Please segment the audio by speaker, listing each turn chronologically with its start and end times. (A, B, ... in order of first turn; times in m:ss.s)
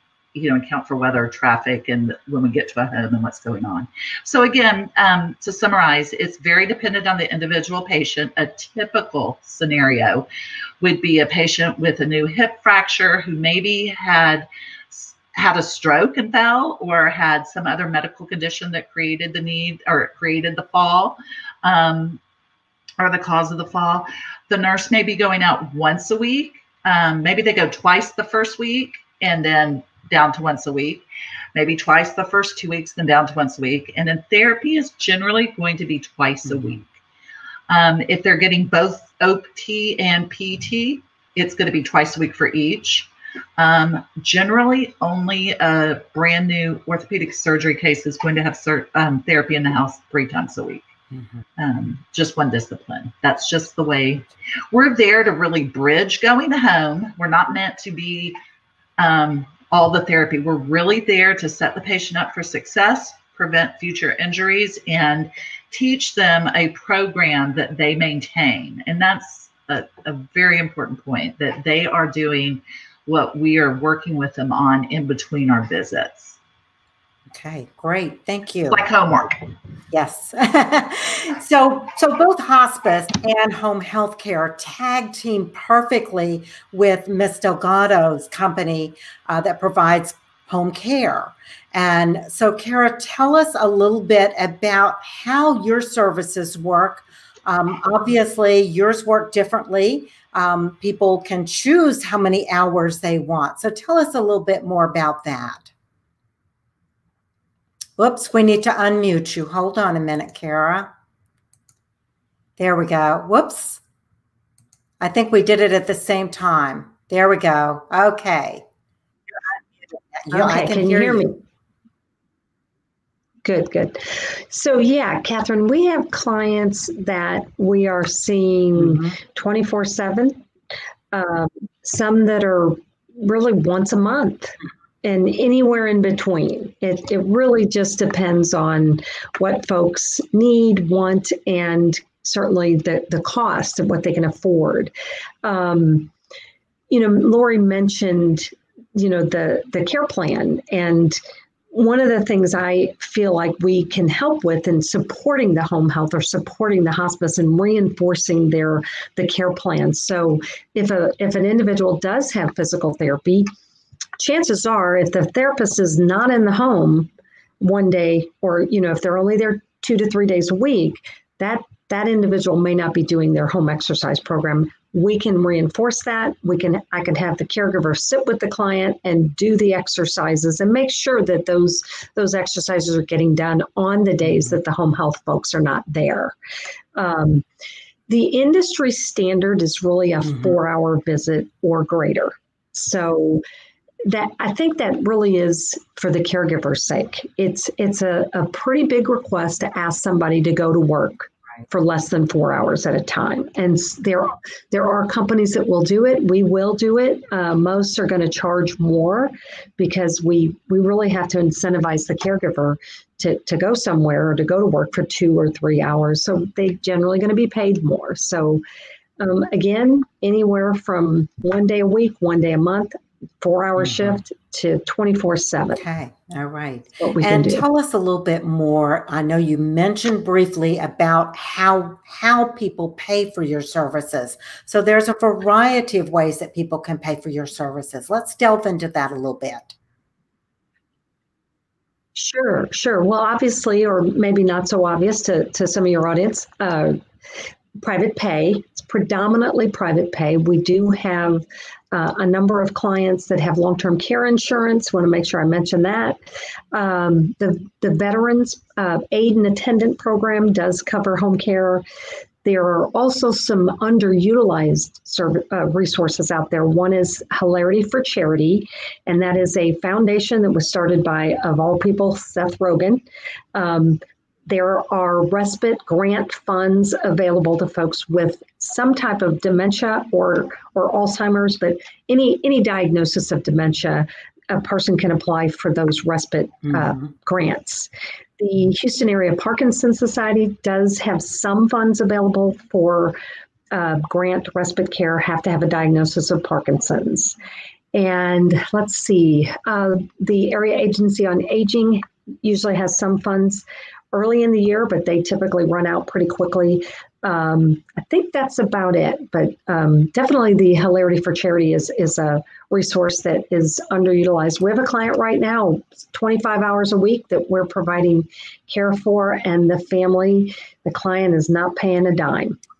0:00.3-0:10.2 A
0:10.8-0:22.2 A
0:23.0-0:36.9 A
0:36.5-0:36.8 B
0:37.7-0:50.8 A
0:51.1-0:51.4 B
0:51.6-0:58.4 A
0:59.0-1:16.4 A
1:17.3-1:18.9 B
1:18.7-1:19.4 A
1:19.9-1:45.7 B
1:48.0-1:50.9 B
1:52.6-1:53.8 B
1:55.0-1:58.6 B
1:59.5-2:01.3 B
2:00.3-2:01.4 C
2:03.4-2:10.4 C
2:08.8-2:09.2 B
2:11.1-2:24.9 C
2:25.4-2:26.1 C
2:26.9-2:31.2 C
2:31.7-2:43.5 C
2:44.2-2:47.1 C
2:47.6-3:06.3 C
3:06.9-3:07.4 C
3:08.1-3:13.4 C
3:14.0-3:38.6 C
3:39.2-3:45.8 C
3:43.8-3:44.2 B
3:45.8-3:59.7 B
3:47.0-3:47.6 C
4:02.1-4:07.0 C
4:07.8-4:16.2 C
4:16.7-4:21.8 C
4:22.4-4:53.2 C
4:46.7-4:47.1 B
4:53.7-4:57.4 C
4:57.9-5:22.6 C